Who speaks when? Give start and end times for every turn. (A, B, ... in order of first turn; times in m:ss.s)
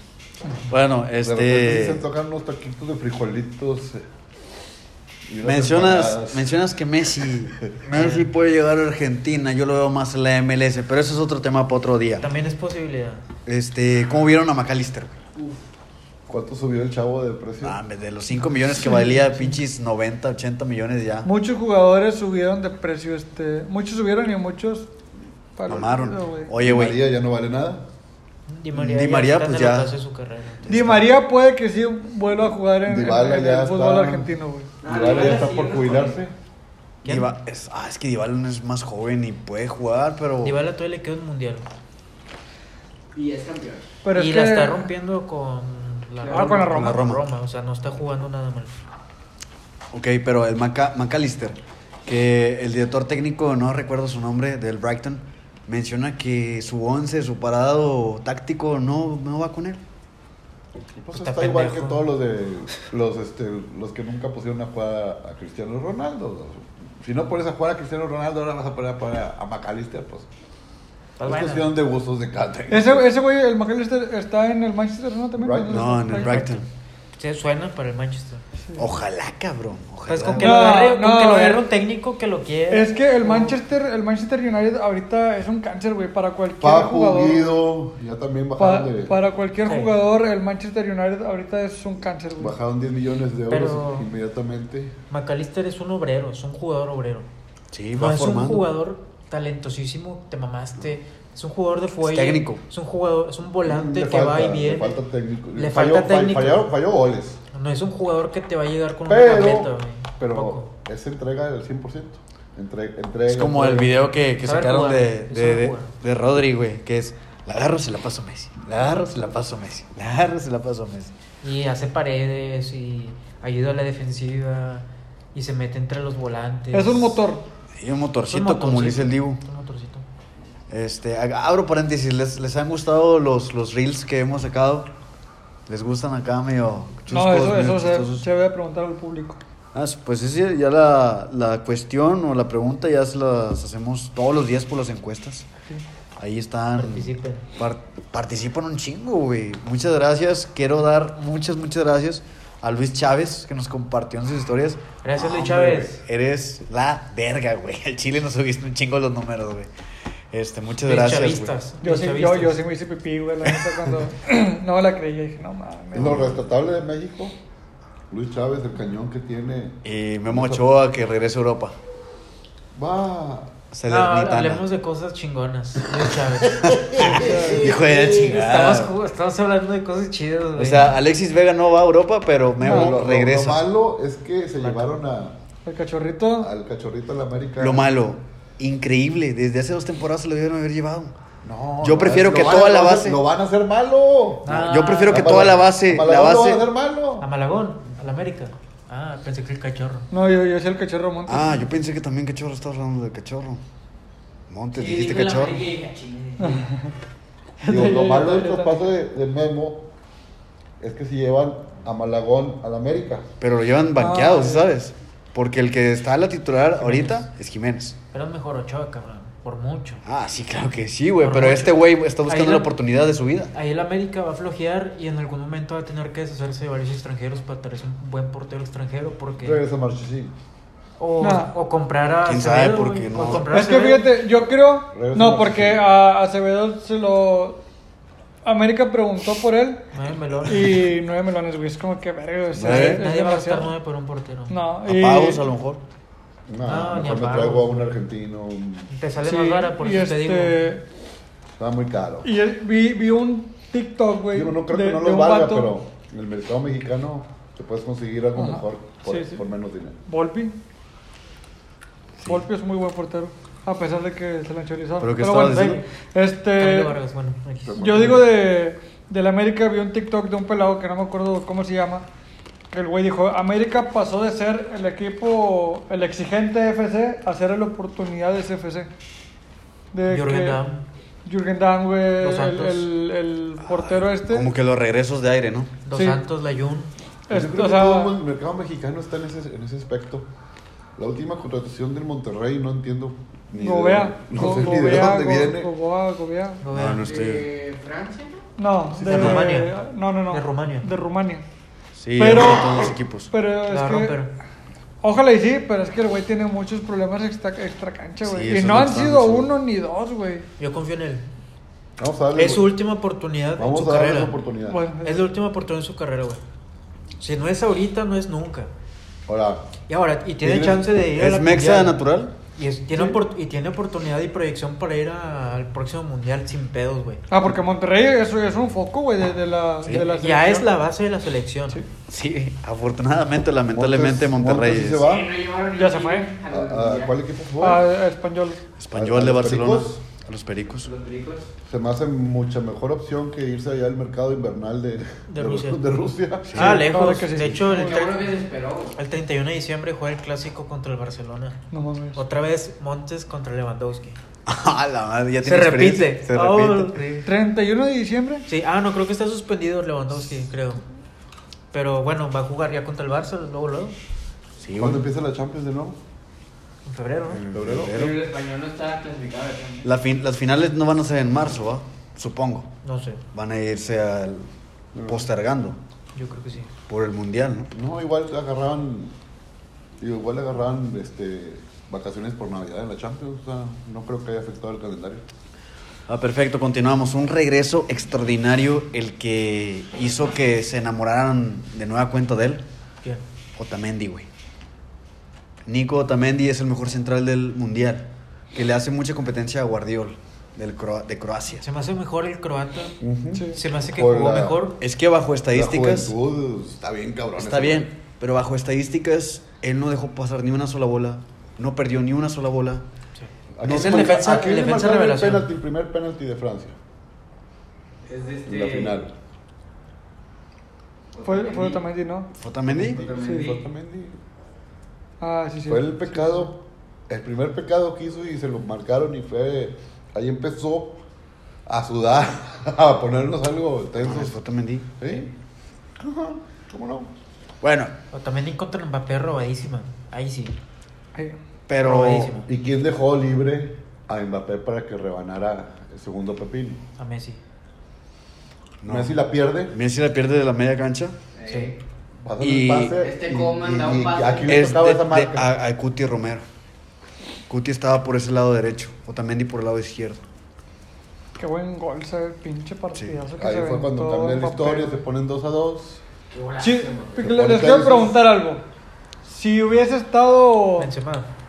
0:00.7-0:02.0 A
0:01.2-0:04.0 B
0:05.3-0:06.5 B
0:05.4-0:12.3 A
0:07.9-0:08.3 C
0:12.2-0:13.2 C
0:13.5-0:15.2 A
0:15.4-0:15.6 D
0:16.3-0:17.8 B
0:17.6-0:21.3 A
0:21.2-0:24.9 E
0:25.6-0:26.5 E
0:25.7-0:27.0 A
0:26.6-0:27.9 B
0:28.5-0:30.7 C
0:28.8-0:29.9 A
0:30.6-0:34.7 E
0:32.8-0:34.3 B
0:34.8-0:36.2 D
0:34.8-0:36.3 B
0:37.0-0:37.3 C
0:37.0-0:40.6 A
0:40.4-0:41.7 C
0:43.1-0:43.9 D
0:44.0-0:44.9 E
0:44.1-0:48.7 C
0:46.2-0:46.6 D
0:46.3-0:47.0 E
0:46.6-0:47.2 A
0:49.9-0:59.8 A
1:01.0-1:10.3 B
1:01.1-1:02.0 C
1:11.2-1:11.7 C
1:11.2-1:13.1 B
1:12.7-1:16.5 E
1:15.4-1:15.9 B
1:15.7-1:16.6 A
1:17.2-1:18.4 C
1:18.8-1:20.7 A
1:20.1-1:23.6 C
1:20.4-1:21.6 E
1:22.7-1:27.5 E
1:26.6-1:29.2 B
1:28.6-1:32.5 E
1:29.6-1:29.9 C
1:32.4-1:34.9 B
1:33.5-1:34.1 C
1:35.1-1:37.3 C
1:37.7-1:38.7 A
1:37.9-1:45.0 C
1:42.0-1:42.6 A
1:43.6-1:47.4 B
1:45.6-1:46.7 C
1:47.5-1:50.7 C
1:49.0-1:54.0 B
1:53.3-2:01.1 A
1:54.4-1:55.9 C
2:01.4-2:07.2 C
2:06.7-2:07.4 E
2:07.8-2:09.4 A
2:08.3-2:10.0 C
2:10.7-2:14.9 A
2:15.7-2:18.2 A
2:17.1-2:19.4 E
2:19.7-2:25.5 A
2:26.2-2:39.7 A
2:26.8-2:27.5 C
2:35.0-2:36.0 C
2:40.3-2:41.5 A
2:40.8-2:42.6 C
2:41.8-2:46.4 E
2:45.9-2:47.4 B
2:48.1-2:49.8 B
2:49.8-2:51.8 A
2:50.3-2:50.6 B
2:52.7-2:53.5 B
2:53.7-2:54.6 A
2:53.9-3:01.0 C
2:56.0-2:58.9 A
2:56.6-2:58.4 B
2:57.2-2:57.7 E
3:00.6-3:03.6 A
3:02.6-3:05.4 B
3:02.6-3:02.9 E
3:04.6-3:04.9 C
3:05.6-3:06.5 E
3:06.4-3:07.9 B
3:07.6-3:11.1 A
3:11.4-3:14.5 B
3:11.8-3:13.2 A
3:14.4-3:15.4 C
3:14.5-3:16.6 A
3:15.1-3:17.2 B
3:17.2-3:20.1 C
3:20.1-3:21.6 E
3:21.3-3:23.6 A
3:24.5-3:25.7 A
3:24.7-3:26.6 D
3:26.4-3:26.9 E
3:27.6-3:28.8 E
3:27.7-3:29.9 B
3:30.8-3:33.3 B
3:33.4-3:38.0 A
3:34.0-3:34.7 E
3:36.8-3:37.3 C
3:38.1-3:40.0 C
3:40.0-3:43.5 A
3:41.2-3:42.7 C
3:43.5-3:49.6 C
3:49.4-3:50.3 B
3:51.0-3:54.1 C
3:51.2-3:51.5 E
3:52.2-3:53.5 A
3:53.5-3:57.6 E
3:54.9-3:55.8 B
3:58.4-3:59.8 E
3:59.9-4:00.8 C
4:00.5-4:03.7 E
4:02.5-4:03.0 A
4:02.6-4:04.6 C
4:04.5-4:05.4 E
4:04.8-4:05.8 A
4:06.5-4:08.9 B
4:06.6-4:07.9 C
4:08.9-4:10.6 C
4:09.2-4:10.8 E
4:11.6-4:12.3 B
4:12.2-4:15.7 E
4:14.3-4:20.0 B
4:18.4-4:19.4 E
4:20.1-4:20.5 E
4:22.2-4:26.9 E
4:25.0-4:25.8 A
4:25.4-4:25.8 C
4:26.6-4:28.1 C
4:27.6-4:28.3 B
4:27.8-4:32.0 E
4:32.7-4:38.9 E
4:39.9-4:40.6 E
4:40.1-4:40.9 C
4:41.2-4:44.5 E
4:42.2-4:42.9 C
4:43.7-4:45.7 A
4:45.9-4:46.9 C
4:45.9-4:46.2 E
4:47.3-4:48.1 E
4:47.3-4:50.3 B
4:51.0-4:55.7 B
4:53.6-4:56.6 E
4:56.6-4:57.0 C
4:56.7-4:57.5 A
4:57.0-4:58.5 D
4:58.6-5:01.4 E
4:59.0-4:59.7 C
4:59.0-4:59.3 B
5:00.3-5:00.9 C
5:02.0-5:03.3 A
5:02.1-5:04.2 E
5:03.7-5:04.3 C
5:05.0-5:10.4 E
5:08.2-5:09.5 A
5:10.6-5:11.2 C
5:12.0-5:12.8 B
5:12.4-5:14.4 C
5:13.6-5:14.8 B
5:14.7-5:15.2 E
5:15.0-5:16.4 C
5:17.2-5:18.7 C
5:19.3-5:19.7 B
5:19.9-5:22.0 C
5:20.4-5:20.9 B
5:21.1-5:22.3 A
5:22.6-5:27.2 C
5:22.9-5:23.2 E
5:27.3-5:30.8 E
5:29.9-5:31.8 C
5:32.1-5:35.1 A
5:33.7-5:35.4 B
5:35.0-5:37.1 D
5:35.7-5:36.3 E
5:36.5-5:37.8 B
5:37.6-5:38.6 E
5:38.8-5:40.9 A
5:38.9-5:40.0 B
5:40.8-5:41.5 D
5:41.6-5:46.7 B
5:45.3-5:45.8 C
5:46.5-5:47.0 A
5:46.5-5:48.3 C
5:46.6-5:48.1 E
5:47.7-5:49.0 D
5:49.0-5:51.6 C
5:51.7-5:52.2 E
5:52.1-5:54.2 C
5:54.5-5:57.0 A
5:55.4-5:57.3 C
5:57.2-5:58.4 E
5:58.4-6:00.8 C
6:01.7-6:04.0 C
6:04.6-6:05.1 A
6:04.7-6:06.0 B
6:06.9-6:07.4 C
6:07.4-6:08.2 A
6:07.5-6:08.0 B
6:07.9-6:09.9 D
6:09.8-6:12.7 A
6:12.8-6:13.2 C
6:13.3-6:14.5 A
6:14.9-6:15.3 B
6:15.0-6:15.8 A
6:16.1-6:16.7 C
6:16.9-6:17.7 A
6:17.7-6:19.1 B
6:20.0-6:25.2 B
6:26.1-6:32.6 A
6:33.6-6:34.3 A
6:35.6-6:41.6 A
6:41.6-6:43.0 C
6:43.0-6:44.6 B
6:43.4-6:43.6 E
6:43.5-6:44.8 C
6:44.8-6:46.1 A
6:45.5-6:47.9 B
6:47.4-6:52.8 A
6:53.2-6:55.5 C
6:53.6-6:56.8 B
6:53.6-6:54.2 A
6:58.1-6:59.0 D
6:58.5-6:59.1 B
7:01.1-7:01.8 D
7:01.2-7:02.3 E
7:02.4-7:03.0 A
7:02.7-7:04.2 B
7:02.8-7:03.6 D
7:03.2-7:03.5 E
7:05.2-7:06.4 E
7:05.7-7:11.0 B
7:11.7-7:14.4 B
7:14.0-7:14.9 A
7:15.0-7:15.3 B
7:16.0-7:17.1 B
7:17.6-7:17.9 A
7:18.1-7:20.6 C
7:21.7-7:22.3 A
7:21.8-7:22.5 C
7:22.4-7:26.8 B
7:27.0-7:27.4 C
7:28.8-7:29.2 A
7:28.9-7:29.8 B
7:29.7-7:31.2 A
7:31.4-7:31.8 D
7:31.4-7:31.7 C
7:32.2-7:35.5 B
7:32.4-7:32.9 A
7:32.9-7:34.7 D
7:34.5-7:36.4 A
7:37.5-7:40.2 A
7:41.4-7:45.0 E
7:43.4-7:46.0 B
7:46.3-7:47.3 D
7:46.6-7:48.6 E
7:47.2-7:48.2 B
7:49.2-7:50.9 E
7:50.8-7:51.3 C